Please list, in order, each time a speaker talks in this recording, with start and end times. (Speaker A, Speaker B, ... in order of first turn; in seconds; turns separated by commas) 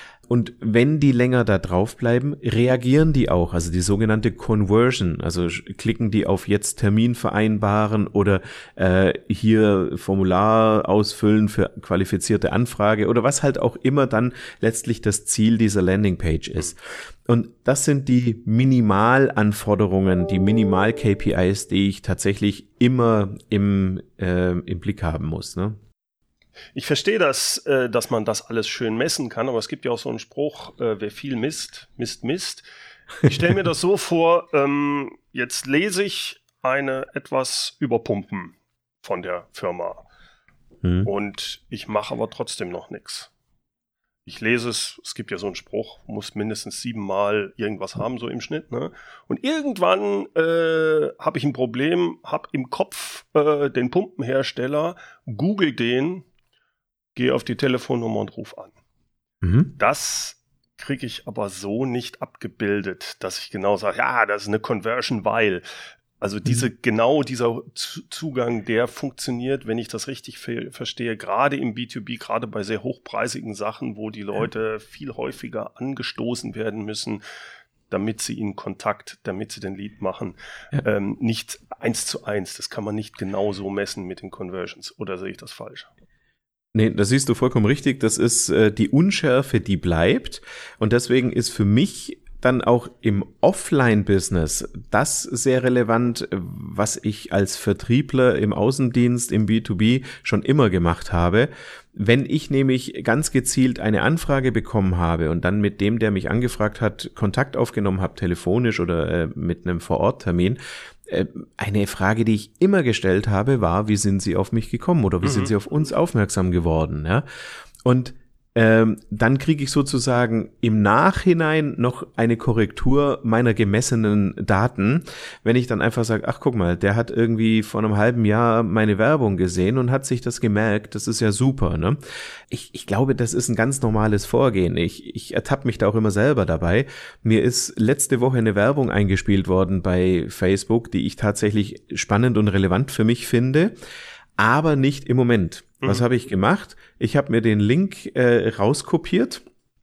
Speaker A: 0.3-25.8, Speaker B: 26.7-32.6, Speaker B: 33.2-40.0, Speaker A: 40.8-41.1, Speaker B: 41.0-43.3, Speaker B: 44.3-56.2, Speaker B: 57.1-58.7, Speaker A: 59.4-59.7, Speaker B: 59.8-65.6, Speaker B: 66.2-77.2, Speaker B: 77.9-85.9, Speaker A: 86.7-117.2, Speaker B: 115.2-115.5, Speaker A: 117.8-132.0, Speaker A: 132.5-143.7, Speaker A: 144.4-149.4